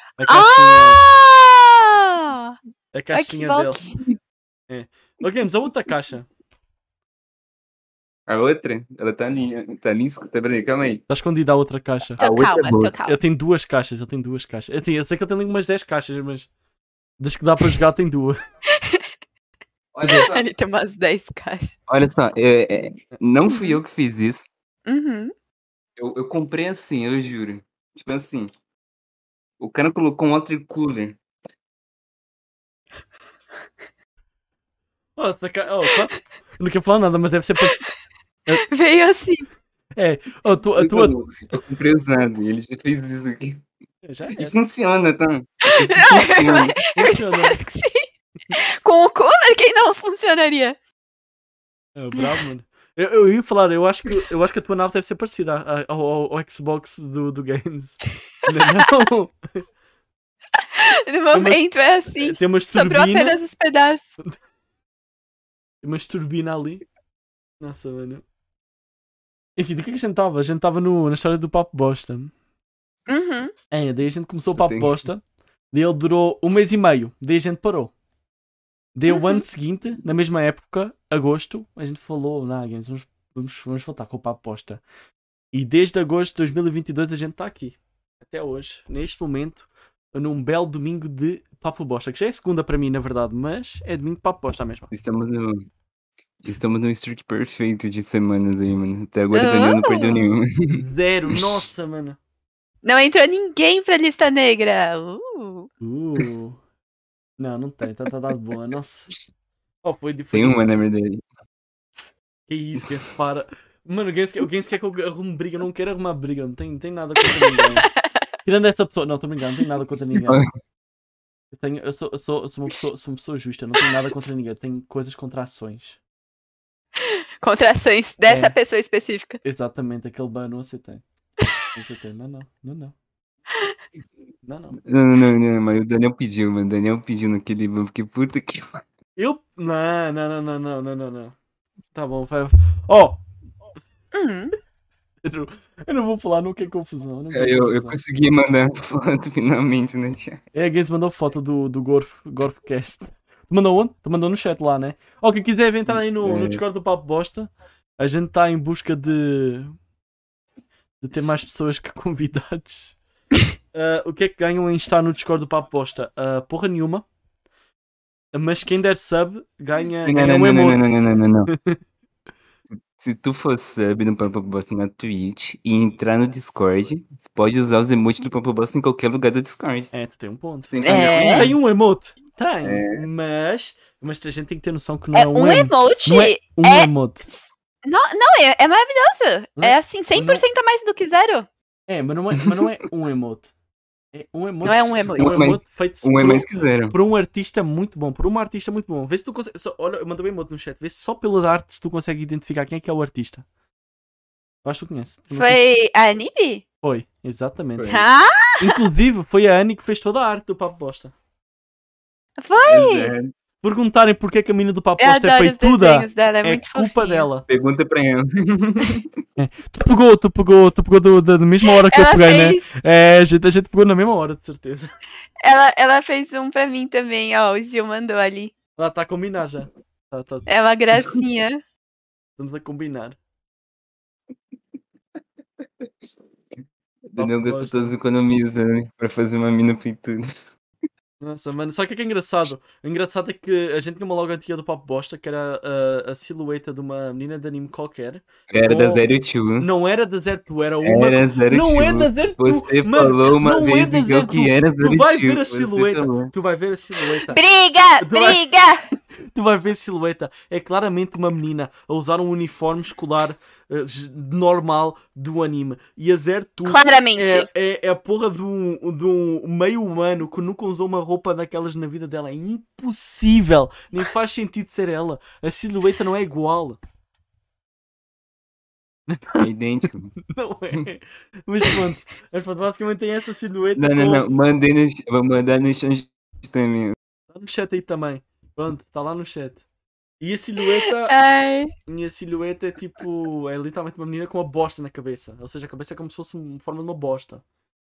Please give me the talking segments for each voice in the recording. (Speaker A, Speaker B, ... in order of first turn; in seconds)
Speaker A: 0.2-1.0, 2.9-3.8, 4.7-6.3, 11.1-12.2, 13.1-16.5, 17.2-18.4, 35.2-37.9, 40.0-41.1, 44.0-44.5, 46.9-47.6, 52.0-59.6, 61.3-61.6, 62.1-63.4, 65.8-66.8, 67.6-68.2, 69.6-72.3, 73.7-77.9, 79.0-84.8, 85.5-94.9, 100.7-102.2, 105.8-106.6, 107.4-109.1, 109.8-110.6, 112.5-117.9, 118.4-120.4, 121.5-126.0, 128.3-128.6, 129.4-131.0, 131.7-132.9, 134.4-134.8, 139.2-141.3, 141.9-143.2, 145.2-148.0, 150.5-159.7, 161.0-162.9, 163.7-167.1, 168.3-170.9, 171.5-171.8, 179.9-187.3, 189.6-190.4, 191.9-193.5, 194.1-203.4, 204.6-205.6, 206.8-207.9, 208.6-211.1, 213.6-217.4, 219.4-224.9, 228.8-230.5, 232.4-233.2, 237.2-237.9, 241.2-257.4, 258.0-258.4, 259.2-276.8, 279.1-279.5, 280.2-284.2, 287.3-289.6, 290.2-291.1, 291.9-297.4
Speaker B: 0.3-2.6, 3.1-4.0, 12.2-13.2, 18.7-19.1, 20.0-21.8, 23.5-23.8, 24.9-25.3, 38.6-39.5, 45.6-50.8, 60.7-64.2, 73.1-73.5, 79.1-79.4, 99.3-100.3, 102.8-105.7, 117.3-117.9, 127.0-129.4, 144.1-144.6, 180.8-181.5, 185.1-186.9, 187.8-191.5, 194.6-195.5, 205.3-206.6, 207.9-208.8, 212.4-213.1, 215.0-217.3, 221.9-222.6, 225.4-228.5, 230.5-231.6, 257.3-258.8, 266.7-267.5, 291.1-291.7
Speaker C: 8.3-11.0, 12.2-12.9, 19.9-20.5, 21.9-24.5, 26.0-28.5, 29.6-31.2, 40.8-43.6, 44.4-46.8, 74.5-75.0, 94.9-95.7, 96.4-100.8, 110.3-111.2, 120.1-120.5, 134.8-138.8, 147.3-150.4, 155.9-156.6, 170.0-171.5, 172.9-179.9, 180.6-181.5, 182.6-183.1, 192.4-192.7, 195.1-196.9, 207.8-208.0, 212.7-213.3, 217.5-219.1, 237.1-240.4, 248.5-249.7, 250.8-256.3, 279.4-280.1, 283.8-286.9